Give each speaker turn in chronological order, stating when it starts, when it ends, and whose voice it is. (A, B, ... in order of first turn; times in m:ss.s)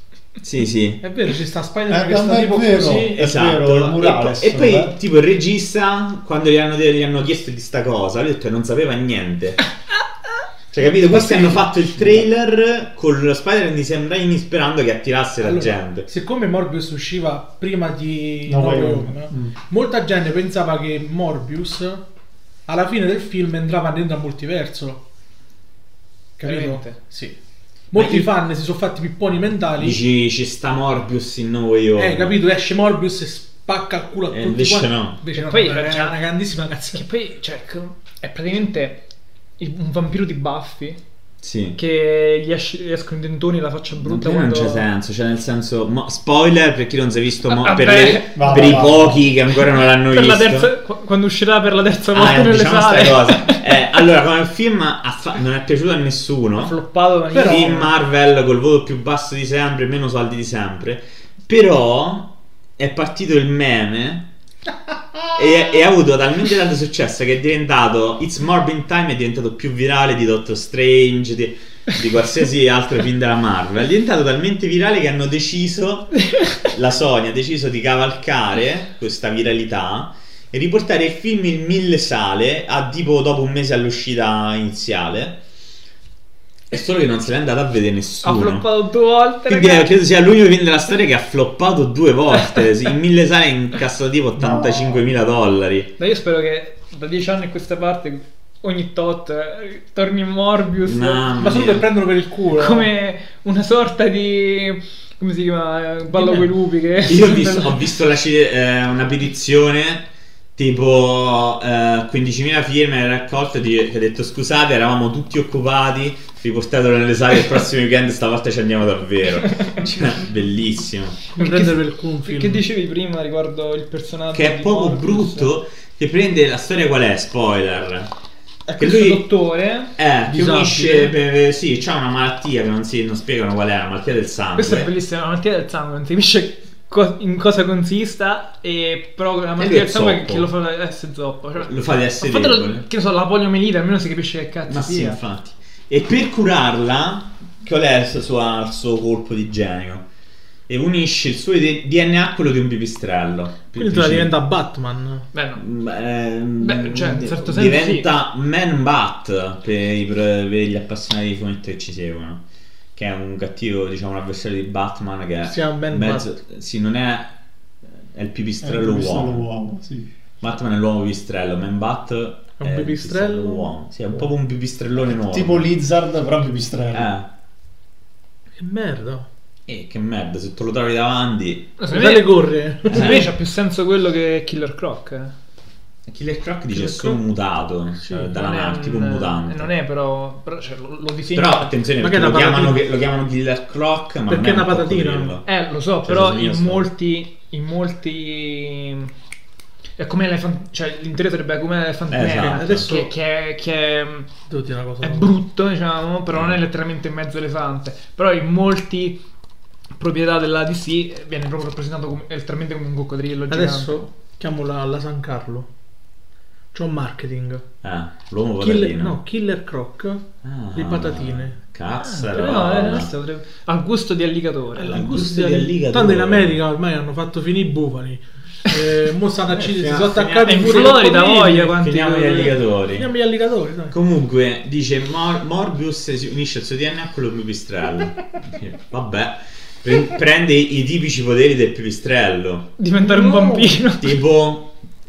0:00.4-0:01.0 A
0:01.0-0:03.2 B
0:01.9-0:05.0 C
0:03.1-0:09.7 A
0:10.7-0:16.1 A
0:12.0-0:12.2 C
0:15.4-0:22.0 B
0:18.4-0:19.5 C
0:22.7-0:25.0 B
0:26.4-0:27.4 B
0:26.4-0:27.0 D
0:27.9-0:30.0 B
0:27.9-0:28.3 A
0:29.8-0:32.4 A
0:32.0-0:37.0 B
0:34.3-0:35.2 A
0:35.3-0:36.2 D
0:36.9-0:39.0 D
0:39.6-0:41.0 D
0:41.4-0:41.8 A
0:41.8-0:44.8 D
0:44.0-0:50.7 A
0:47.5-0:48.9 D
0:48.4-0:49.3 C
0:49.8-0:53.6 D
0:52.1-0:56.8 A
0:56.6-0:57.9 D
0:57.3-0:57.9 B
0:57.4-1:04.3 A
1:05.3-1:25.4 A
1:26.7-1:28.7 A
1:28.2-1:29.9 D
1:29.5-1:35.9 A
1:34.4-1:35.0 C
1:36.0-1:41.3 D
1:40.8-1:41.9 A
1:41.4-1:42.9 B
1:42.5-1:47.8 D
1:46.1-1:46.4 B
1:47.0-1:50.0 A
1:50.6-2:01.2 A
2:01.4-2:02.6 B
2:01.4-2:05.5 D
2:04.3-2:08.1 A
2:08.7-2:09.2 A
2:08.7-2:09.9 D
2:10.0-2:14.9 A
2:10.3-2:11.1 B
2:14.6-2:25.2 D
2:19.6-2:20.5 A
2:21.6-2:22.8 A
2:24.7-2:30.0 A
2:30.7-2:34.3 A
2:33.8-2:35.2 B
2:35.3-2:35.6 D
2:35.6-2:42.4 A
2:36.6-2:38.1 D
2:42.9-2:47.3 A
2:45.4-2:46.4 B
2:48.0-2:49.4 A
2:48.6-2:50.1 C
2:50.4-2:55.7 A
2:52.6-2:53.7 B
2:55.1-2:57.1 C
2:56.9-2:57.3 A
2:58.6-2:59.3 B
2:59.7-3:01.7 A
3:01.8-3:05.3 D
3:01.9-3:03.3 B
3:02.9-3:03.3 A
3:06.0-3:09.7 A
3:06.7-3:07.2 B
3:08.0-3:08.3 B
3:08.3-3:11.7 D
3:11.3-3:15.5 A
3:12.0-3:12.8 B
3:14.3-3:15.4 B
3:15.4-3:19.1 D
3:16.0-3:16.9 A
3:20.0-3:24.3 D
3:22.1-3:22.9 A
3:22.4-3:23.1 B
3:24.5-3:25.3 B
3:25.0-3:29.2 D
3:30.0-3:34.0 D
3:33.5-3:35.7 B
3:36.7-3:37.6 B
3:37.8-3:39.2 A
3:38.6-3:41.5 B
3:40.4-3:43.1 A
3:42.0-3:45.0 D
3:44.8-3:51.7 B
3:44.8-3:46.6 A
3:49.5-3:53.1 A
3:50.4-3:52.6 D
3:52.9-3:53.9 B
3:53.9-4:02.7 A
4:02.8-4:04.2 D
4:03.0-4:03.8 B
4:04.0-4:04.7 A